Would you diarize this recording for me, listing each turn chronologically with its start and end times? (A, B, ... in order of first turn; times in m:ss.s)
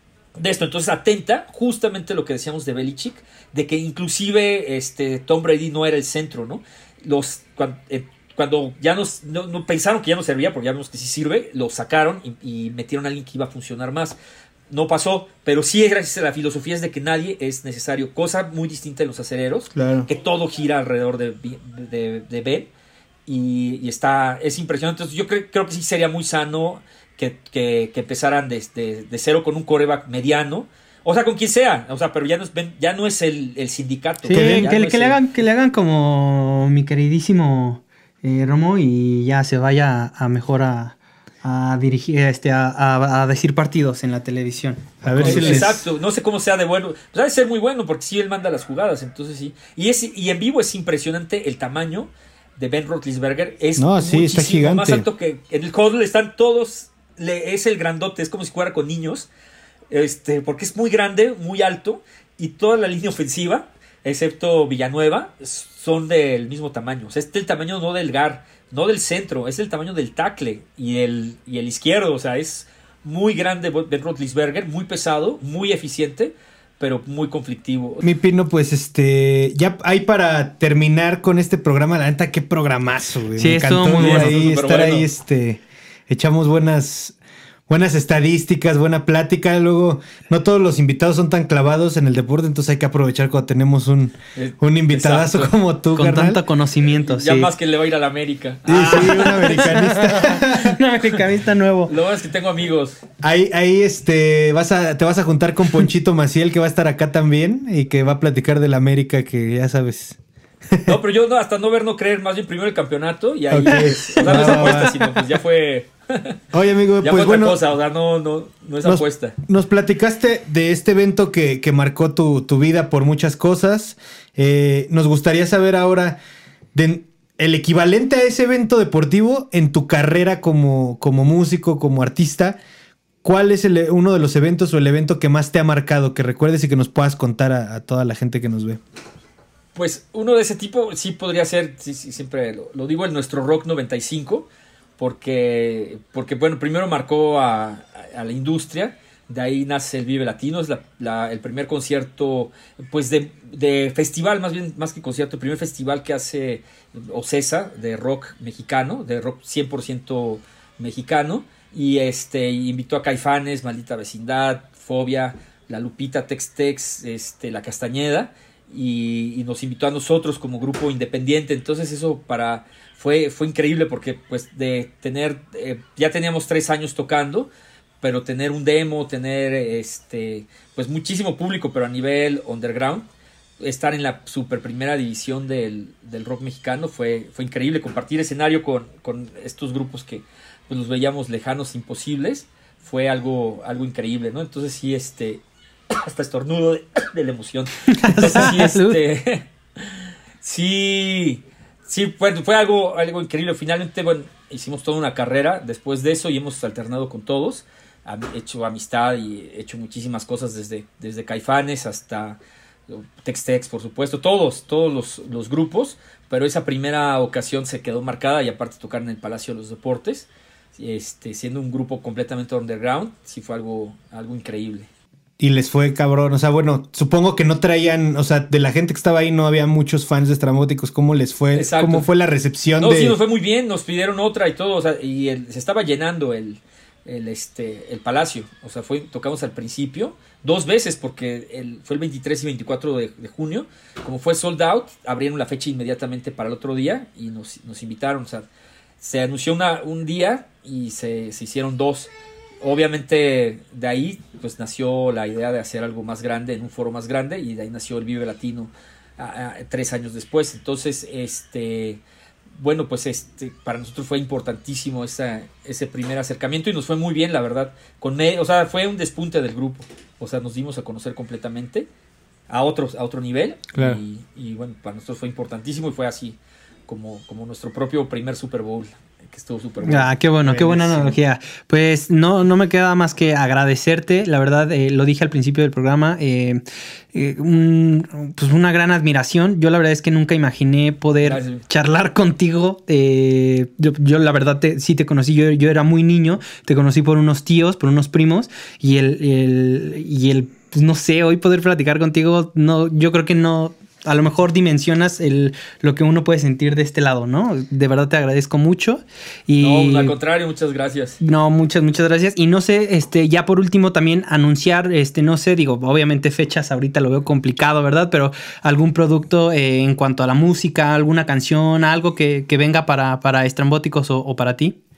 0:00.4-0:14.2 A
0:14.7-0:22.7 A
0:19.8-0:20.1 B
0:23.3-0:35.2 A
0:34.2-0:45.7 C
0:34.3-0:34.7 B
0:45.0-0:45.8 B
0:45.2-0:59.3 A
0:53.8-0:55.1 B
0:59.9-1:18.0 A
1:18.0-1:27.2 B
1:23.4-1:24.4 C
1:23.9-1:25.1 A
1:27.7-1:36.4 B
1:34.4-1:35.5 A
1:36.0-1:37.5 C
1:36.9-1:40.3 A
1:38.7-1:40.8 B
1:39.0-1:41.9 C
1:41.9-1:43.0 A
1:43.2-1:50.2 B
1:50.7-1:51.0 B
1:50.9-1:56.4 A
1:53.5-1:55.0 B
1:53.7-1:55.0 C
1:56.5-1:57.6 B
1:57.0-1:59.4 A
1:58.8-2:06.2 B
2:06.7-2:12.6 B
2:13.2-2:18.8 B
2:19.8-2:24.5 A
2:25.0-2:57.5 A
2:58.0-3:03.1 A
3:03.6-3:44.9 A
3:17.9-3:19.0 C
3:45.4-3:53.2 B
3:51.5-3:52.1 A
3:52.8-4:08.5 A
4:09.0-4:22.0 A
4:22.6-4:31.9 A
4:32.5-4:41.2 A
4:33.7-4:34.0 B
4:39.8-4:46.6 C
4:47.1-5:10.2 C
4:51.2-4:51.6 A
5:09.6-5:11.2 A
5:11.2-5:24.8 C